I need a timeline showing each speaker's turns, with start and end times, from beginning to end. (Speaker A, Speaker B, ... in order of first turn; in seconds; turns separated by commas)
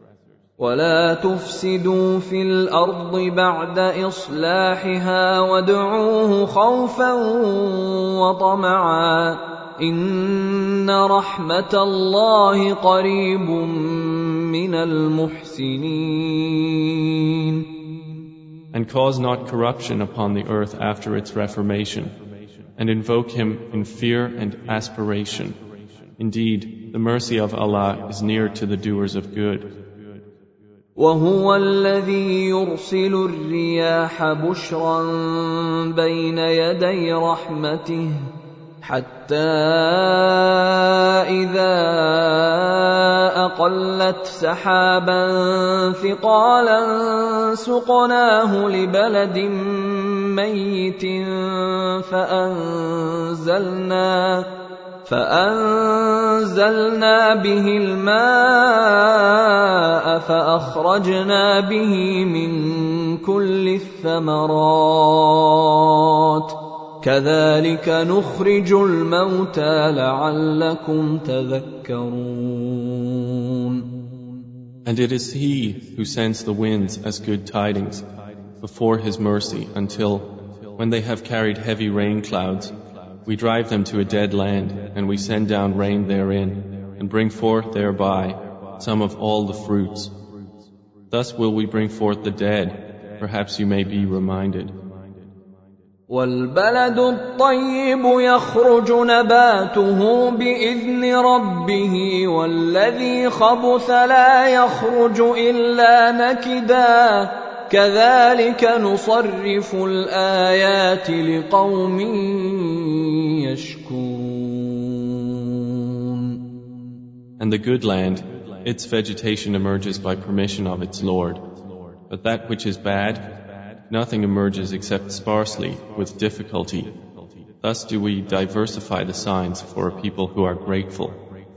Speaker A: 0.6-17.6, Speaker B: 18.7-22.1, Speaker B: 22.8-25.6, Speaker B: 26.2-29.7, Speaker A: 31.0-38.1, Speaker A: 38.8-54.5, Speaker A: 55.0-73.9, Speaker B: 74.8-78.0, Speaker B: 78.6-82.7, Speaker B: 83.2-90.1, Speaker B: 91.1-94.7, Speaker A: 96.1-116.4, Speaker B: 117.4-121.4, Speaker B: 122.1-123.3, Speaker B: 123.9-126.9, Speaker B: 127.6-131.2